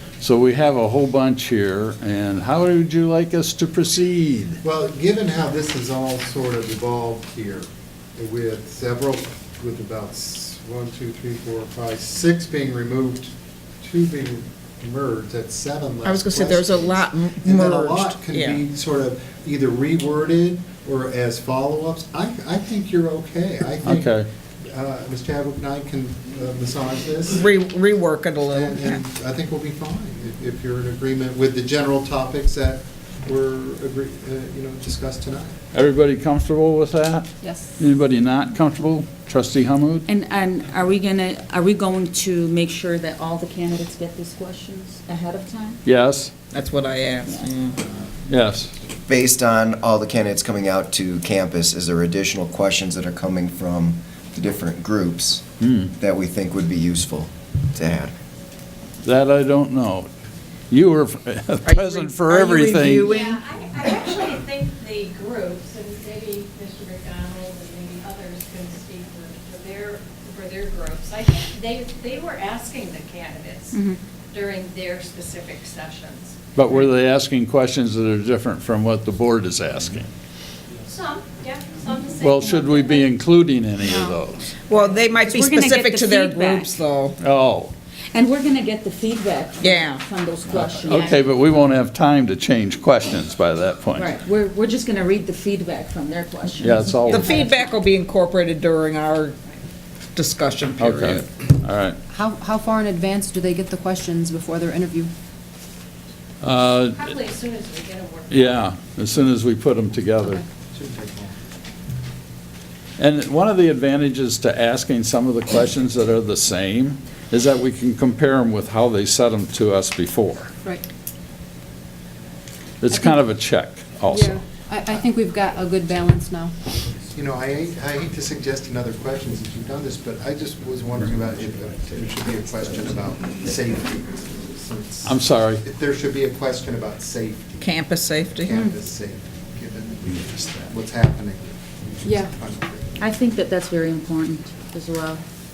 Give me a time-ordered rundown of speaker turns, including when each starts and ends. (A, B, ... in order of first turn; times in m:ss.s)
0:00.2-0:04.6 A
0:04.6-0:27.5 B
0:16.0-0:18.6 C
0:23.8-0:24.3 A
0:27.3-0:29.0 C
0:28.5-0:35.6 B
0:35.7-0:40.0 A
0:37.4-0:37.8 D
0:40.1-0:45.8 E
0:45.8-0:46.3 A
0:46.5-0:47.8 C
0:47.2-0:47.5 E
0:48.3-0:48.7 A
0:49.1-0:58.1 F
0:55.6-0:55.9 A
0:59.0-1:00.1 A
1:00.7-1:03.1 A
1:01.6-1:04.0 C
1:03.0-1:13.8 G
1:13.7-1:14.0 E
1:14.3-1:16.4 G
1:16.6-1:20.1 A
1:20.8-1:23.1 G
1:22.2-1:24.5 A
1:24.7-1:27.2 C
1:25.2-1:26.8 E
1:27.2-1:27.7 A
1:28.1-1:31.2 E
1:29.6-1:30.0 C
1:30.5-1:34.1 A
1:30.9-1:31.2 G
1:34.0-1:37.7 E
1:36.6-1:37.3 A
1:37.1-1:39.4 C
1:40.2-1:41.3 C
1:40.8-1:42.0 A
1:42.1-1:45.1 D
1:46.4-1:47.1 A
1:46.9-1:48.7 G
1:48.3-1:50.4 A
1:50.7-1:51.5 B
1:53.0-2:00.5 A
2:02.8-2:04.4 A
2:04.1-2:06.6 D
2:07.1-2:17.7 B
2:15.0-2:15.6 A
2:17.6-2:18.6 C
2:18.3-2:23.0 B
2:22.0-2:22.4 D
2:23.0-2:25.2 E